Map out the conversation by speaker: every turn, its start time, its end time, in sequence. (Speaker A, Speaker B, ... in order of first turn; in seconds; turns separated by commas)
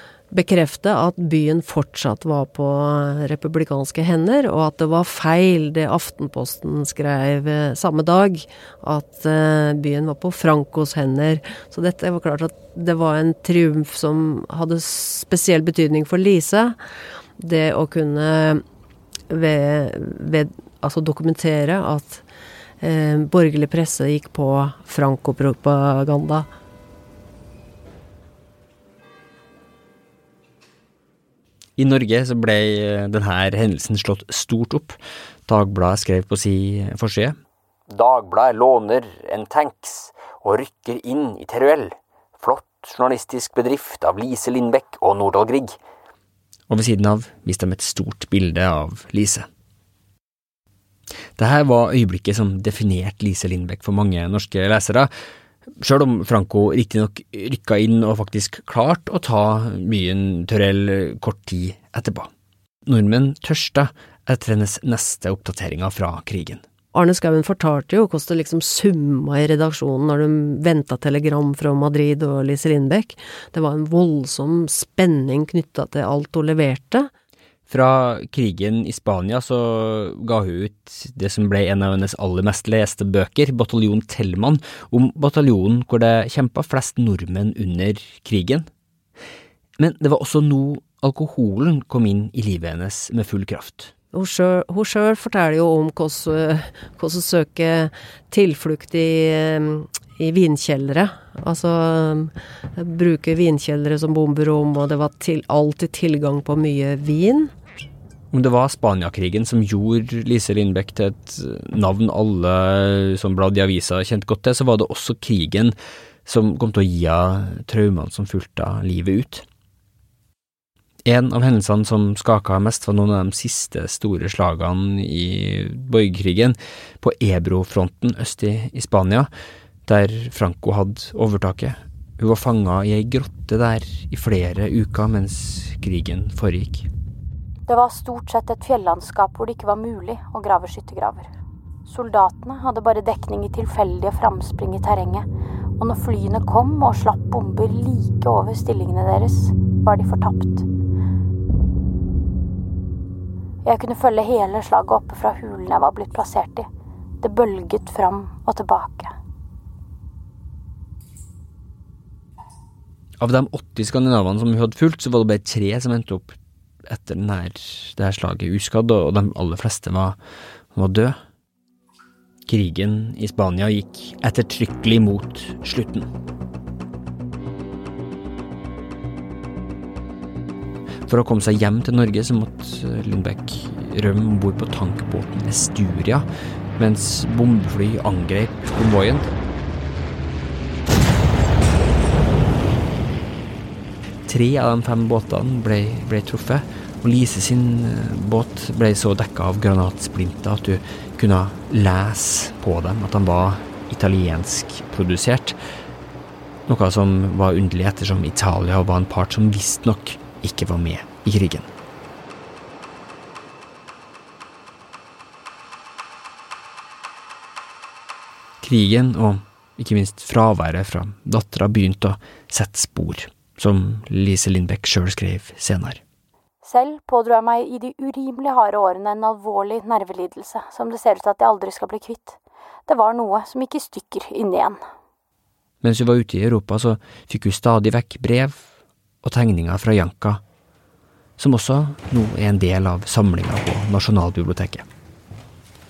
Speaker A: 0.3-16.8, Speaker A: 17.4-18.6, Speaker A: 19.3-22.2, Speaker A: 22.8-26.5, Speaker B: 31.8-37.4, Speaker B: 37.9-45.8, Speaker B: 46.7-49.5, Speaker B: 51.4-55.1, Speaker B: 55.8-62.3, Speaker B: 62.9-66.6, Speaker A: 66.9-77.1, Speaker B: 77.7-88.7, Speaker B: 89.8-93.9, Speaker A: 94.1-107.5, Speaker B: 108.3-119.5, Speaker B: 121.0-129.3, Speaker B: 129.8-136.9, Speaker C: 137.7-141.3, Speaker C: 141.8-145.2, Speaker C: 145.8-150.7, Speaker C: 153.6-156.7, Speaker C: 157.2-159.1, Speaker B: 163.2-170.2, Speaker B: 170.7-171.2, Speaker B: 172.4-176.1, Speaker B: 181.1-186.2, Speaker B: 186.8-189.3, Speaker B: 194.3-205.6, Speaker B: 206.7-211.7, Speaker B: 218.6-226.0, Speaker C: 226.6-234.8, Speaker B: 235.8-238.7, Speaker B: 239.2-240.4, Speaker B: 241.4-244.8